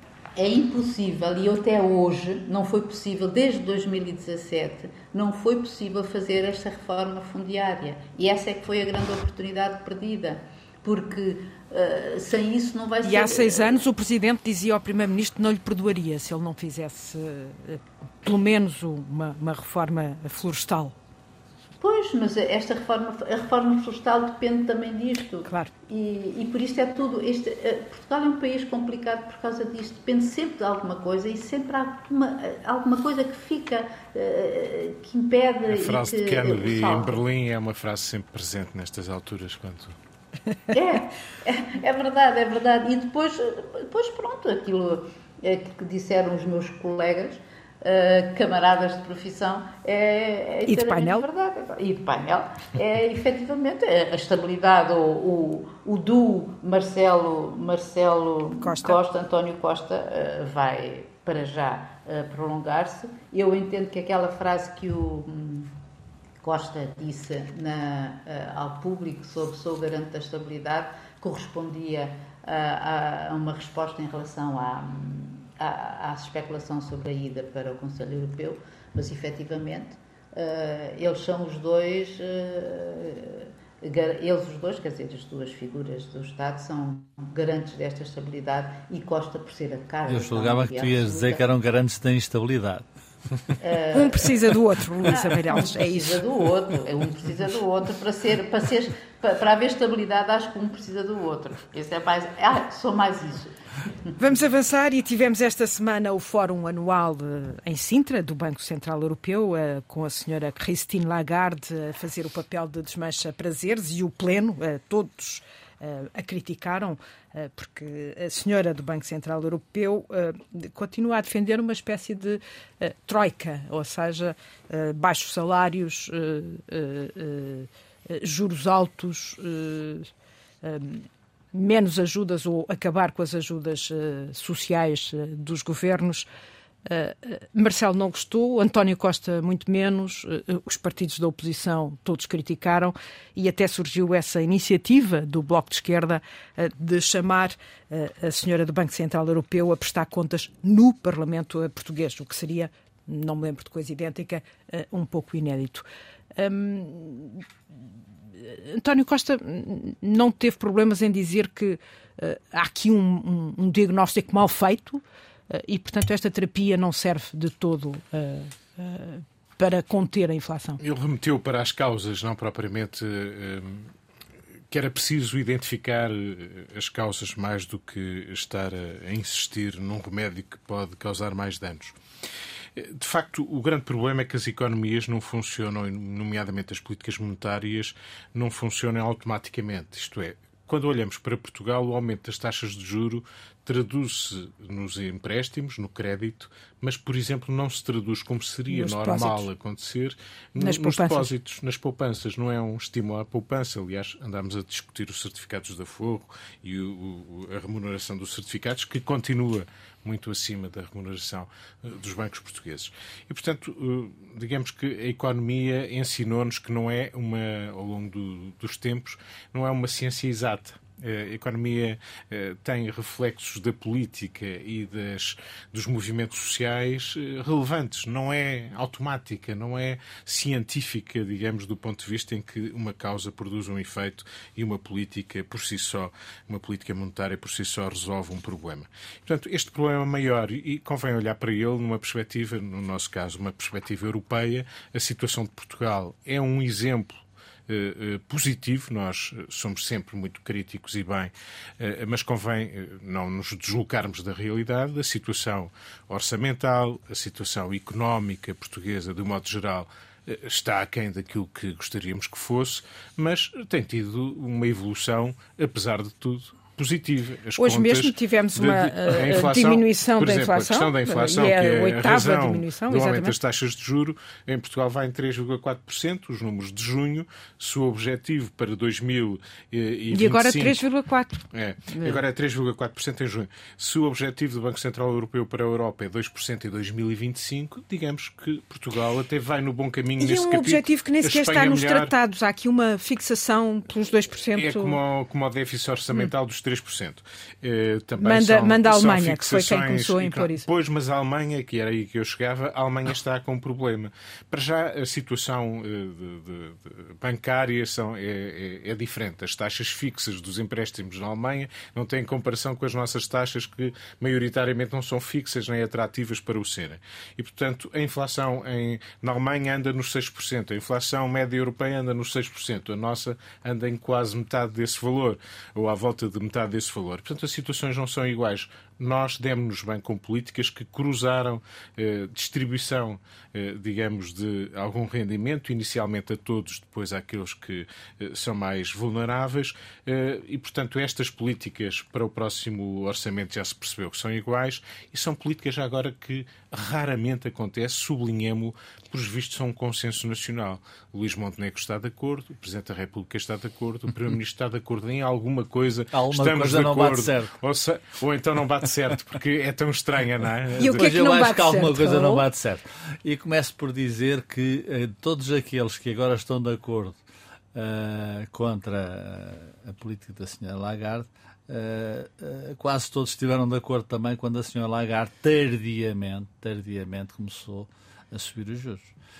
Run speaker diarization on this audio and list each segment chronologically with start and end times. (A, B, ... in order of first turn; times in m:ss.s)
0:00.4-0:13.8 A
0:13.0-0:21.0 B
0:21.8-0:37.2 A
0:25.4-0:25.7 B
0:35.7-0:40.0 C
0:40.7-1:05.7 A
0:50.7-0:51.2 B
0:58.6-0:59.0 B
1:06.4-1:31.4 A
1:30.1-1:32.9 D
1:33.6-1:34.4 A
1:33.9-1:36.2 B
1:35.0-1:43.5 A
1:44.2-2:10.1 B
2:10.6-2:16.3 B
2:16.9-2:37.4 B
2:38.4-2:50.8 B
2:50.8-2:53.9 C
2:54.7-3:02.0 C
3:02.8-4:07.2 C
3:18.7-3:19.5 B
3:20.6-3:21.3 B
4:07.7-4:40.8 C
4:27.6-4:33.4 B
4:40.1-4:42.2 B
4:41.5-4:52.1 C
4:50.2-4:55.0 B
4:54.6-6:01.0 C
4:58.2-5:00.7 B
5:56.1-5:57.5 D
6:00.8-6:02.4 B
6:00.8-6:07.2 D
6:07.7-6:19.1 D